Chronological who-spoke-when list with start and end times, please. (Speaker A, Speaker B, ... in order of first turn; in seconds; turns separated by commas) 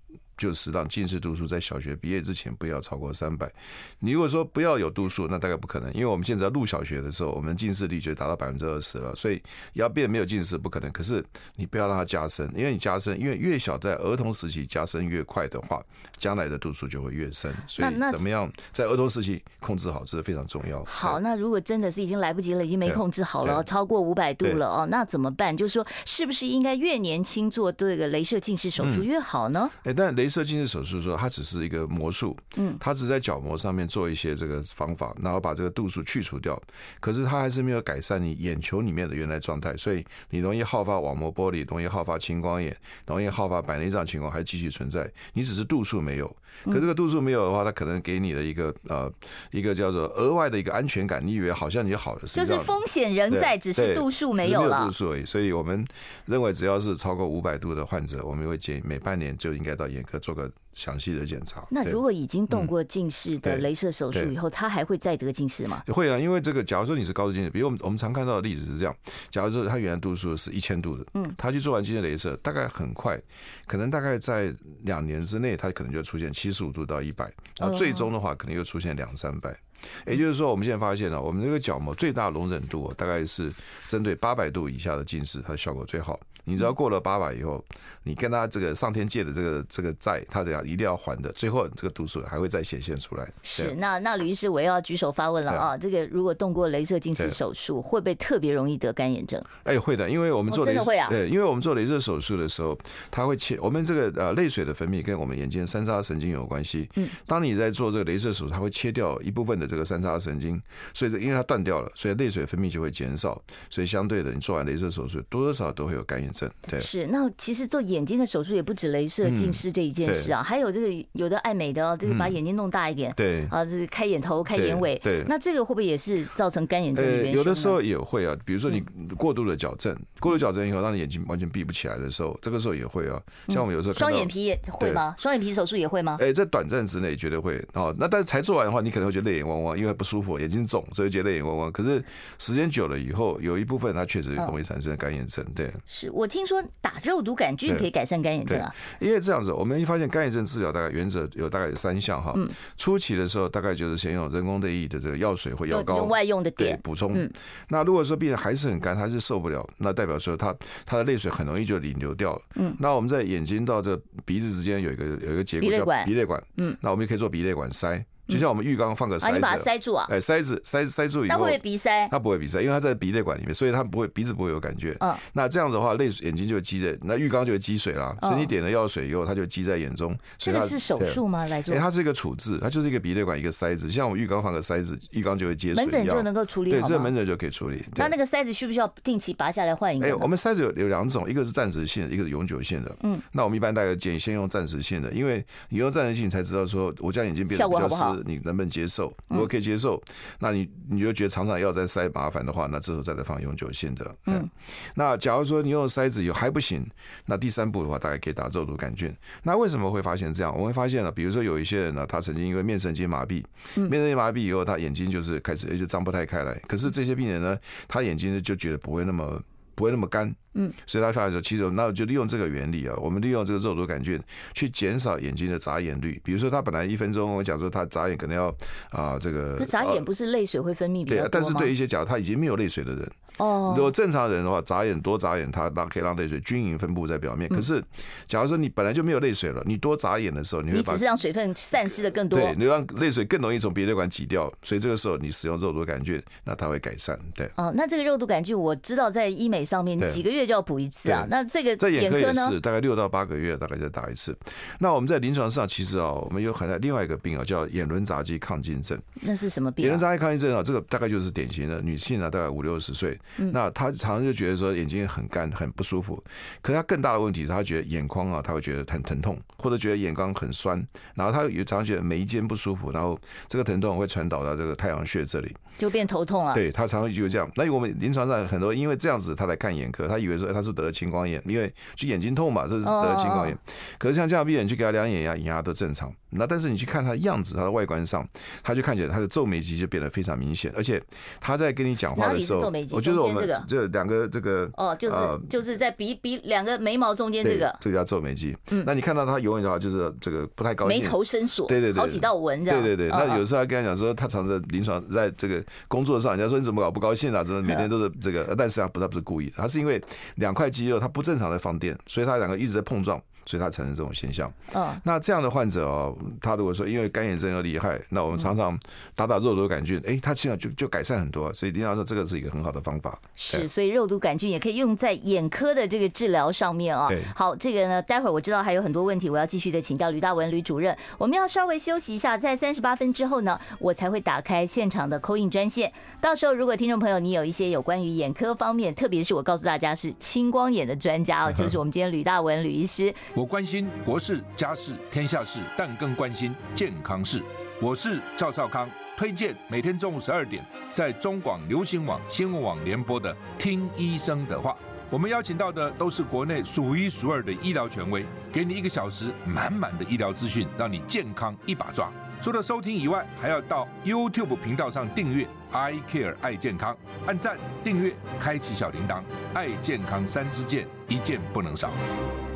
Speaker A: 0.4-21.2, Speaker B: 17.8-18.2, Speaker B: 20.9-29.7, Speaker A: 22.9-23.7, Speaker A: 28.8-29.1, Speaker A: 29.8-52.8, Speaker B: 52.3-54.9, Speaker A: 53.3-62.7, Speaker B: 61.7-65.8, Speaker A: 63.4-64.3, Speaker A: 65.9-93.8, Speaker B: 77.6-78.1, Speaker B: 93.4-99.5, Speaker A: 99.6-116.9, Speaker B: 100.5-101.2, Speaker B: 116.7-127.8, Speaker A: 119.2-120.3, Speaker A: 122.0-122.3, Speaker A: 123.2-123.5, Speaker A: 124.5-125.3, Speaker A: 126.9-135.1, Speaker B: 133.5-136.2, Speaker A: 136.2-145.8, Speaker B: 145.9-148.8, Speaker A: 148.5-188.1, Speaker B: 155.7-157.3, Speaker B: 165.6-166.8, Speaker B: 169.2-170.1, Speaker B: 171.3-172.1, Speaker B: 178.2-178.5, Speaker B: 180.4-181.8, Speaker B: 185.8-187.1, Speaker B: 187.9-190.3, Speaker A: 190.0-230.1, Speaker B: 197.5-198.2, Speaker B: 229.6-231.7, Speaker A: 231.1-241.1, Speaker B: 233.4-233.9, Speaker B: 240.7-242.6, Speaker A: 242.3-247.5, Speaker B: 247.6-252.6, Speaker A: 251.1-259.1, Speaker B: 259.2-260.0, Speaker A: 259.8-275.6, Speaker B: 275.8-276.6, Speaker A: 276.5-295.5, Speaker B: 282.8-283.6, Speaker B: 292.1-293.7, Speaker B: 294.8-297.8, Speaker A: 297.4-323.7, Speaker B: 300.8-303.4, Speaker B: 314.7-315.0, Speaker B: 323.4-343.2, Speaker C: 343.4-372.0